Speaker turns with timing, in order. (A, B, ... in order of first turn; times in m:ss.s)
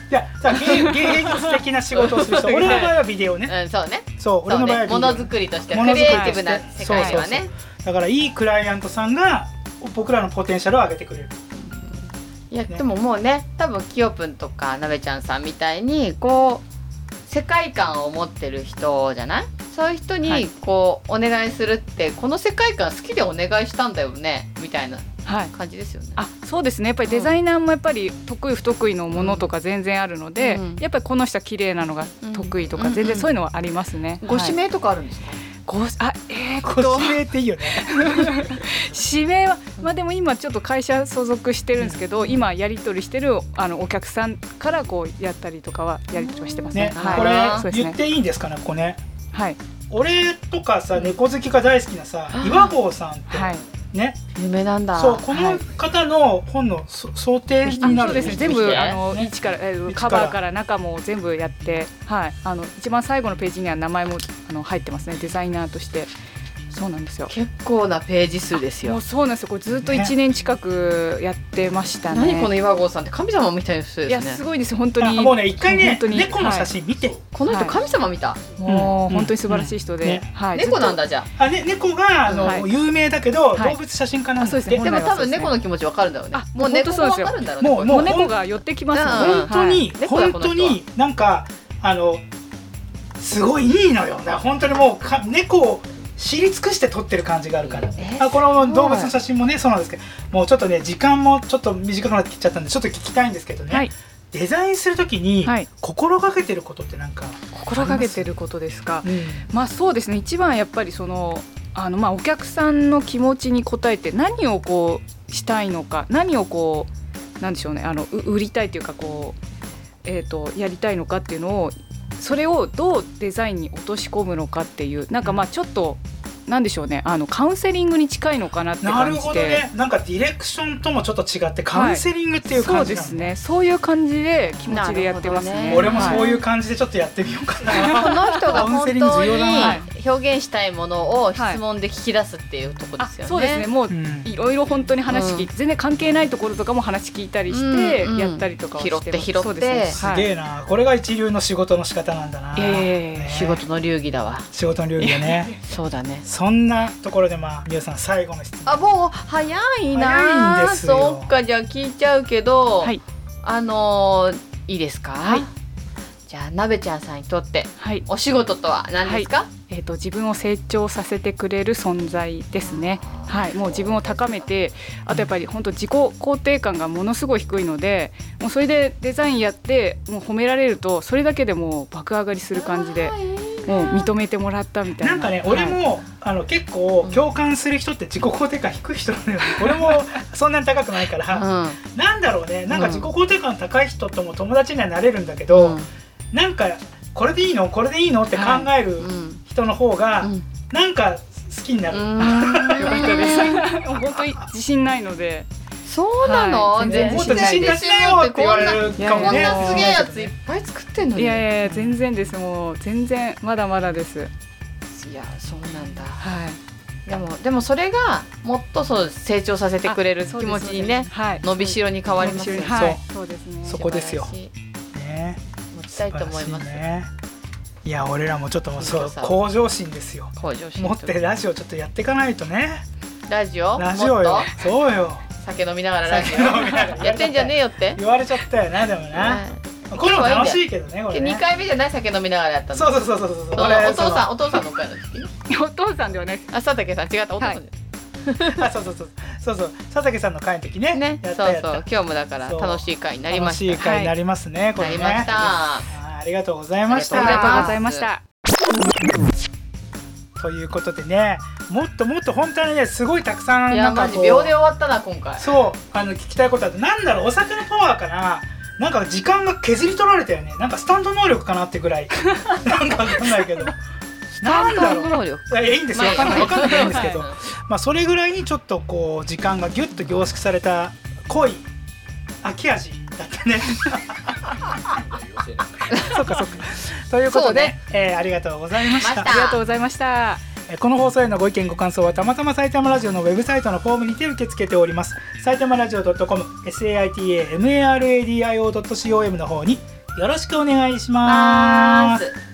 0:00.1-0:03.6 A
0:00.6-0:03.0 B
0:03.5-0:07.5 C
0:04.2-0:11.3 A
0:06.0-0:07.2 B
0:11.6-0:16.6 C
0:17.3-0:26.2 C
0:25.3-0:25.5 B
0:26.2-0:34.6 B
0:27.1-0:27.4 C
0:29.1-0:29.5 C
0:30.4-0:30.8 C
0:32.2-0:33.3 C
0:34.2-0:35.4 C
0:35.7-0:48.0 B
0:36.6-0:38.5 A
0:41.8-0:42.0 A
0:42.2-0:42.4 C
0:46.1-0:47.6 C
0:46.7-0:49.0 A
0:49.3-0:49.6 B
0:49.9-0:54.2 A
0:52.3-0:52.7 C
0:53.3-0:53.6 B
0:54.4-0:55.3 C
0:55.0-0:59.3 A
0:55.3-0:55.6 B
0:57.7-1:06.1 B
0:57.8-0:59.0 C
0:59.9-1:00.4 A
1:06.7-1:07.3 B
1:07.3-1:09.0 C
1:08.8-1:12.5 B
1:09.7-1:10.1 A
1:12.1-1:14.4 C
1:14.1-1:16.7 B
1:15.0-1:17.2 A
1:17.3-1:18.4 C
1:17.5-1:17.8 B
1:18.6-1:21.0 B
1:18.6-1:20.3 A
1:20.5-1:21.3 C
1:21.4-1:24.9 A
1:22.3-1:22.5 C
1:24.4-1:25.5 B
1:24.7-1:28.2 C
1:26.3-1:29.9 B
1:27.6-1:28.4 A
1:28.9-1:30.8 C
1:29.1-1:32.2 A
1:33.2-1:48.3 A
1:38.0-1:39.1 C
1:47.5-1:56.9 B
1:49.0-1:49.5 A
1:57.4-1:59.4 B
2:00.0-2:09.6 B
2:05.2-2:05.5 A
2:08.8-2:13.3 A
2:11.7-2:16.3 B
2:14.7-2:16.4 C
2:15.7-2:19.8 A
2:17.7-2:23.6 C
2:17.8-2:18.6 B
2:19.6-2:19.9 B
2:21.4-2:21.6 B
2:23.0-2:30.3 B
2:23.9-2:24.3 A
2:25.1-2:25.5 C
2:27.5-2:30.0 C
2:30.0-2:33.6 A
2:32.6-2:33.4 B
2:33.2-2:34.5 C
2:34.5-2:35.5 A
2:35.0-2:35.6 B
2:35.6-2:36.3 C
2:36.2-2:38.8 A
2:38.7-2:45.5 C
2:39.9-2:41.3 A
2:46.3-2:49.5 C
2:47.8-2:48.1 B
2:49.0-3:05.8 B
2:52.6-2:54.5 C
3:02.6-3:04.1 C
3:05.0-3:15.8 A
3:09.5-3:09.9 B
3:11.3-3:11.8 C
3:12.7-3:13.1 C
3:15.5-3:15.9 C
3:16.3-3:23.7 A
3:18.3-3:18.7 B
3:19.0-3:19.4 C
3:21.9-3:23.6 C
3:22.2-3:25.5 B
3:25.9-3:31.4 C
3:26.2-3:27.5 B
3:26.8-3:30.3 A
3:29.0-3:30.1 B
3:31.2-3:34.3 B
3:31.7-3:31.9 A
3:34.9-3:36.2 C
3:36.2-3:36.6 B
3:37.1-3:42.9 C
3:39.9-3:43.8 B
3:42.7-3:43.0 A
3:43.6-3:44.3 A
3:43.7-3:44.5 C
3:44.9-3:45.4 A
3:45.7-3:46.8 C
3:46.1-3:47.1 A
3:47.8-3:52.8 A
3:48.8-3:49.4 C
3:50.4-3:51.2 C
3:53.3-3:54.5 C
3:53.8-3:55.2 A
3:55.4-3:58.0 C
3:56.1-4:01.4 A
3:59.1-4:05.3 C
4:02.8-4:04.4 A
4:05.5-4:06.5 B
4:06.5-4:08.6 C
4:08.5-4:11.8 A
4:10.9-4:13.9 C
4:12.4-4:17.8 A
4:13.8-4:14.1 B
4:14.8-4:15.9 C
4:16.9-4:18.1 C
4:17.1-4:18.2 B
4:20.4-4:24.5 A
4:23.7-4:25.5 C
4:25.4-4:33.8 A
4:34.4-4:37.4 C
4:34.4-4:41.7 A
4:36.0-4:37.2 B
4:42.4-4:45.0 A
4:45.9-4:49.3 A
4:45.9-4:46.2 C
4:46.0-4:46.7 B
4:47.3-4:47.7 C
4:49.0-4:49.6 C
4:49.2-4:50.4 B
4:50.7-5:02.2 A
5:01.2-5:02.4 C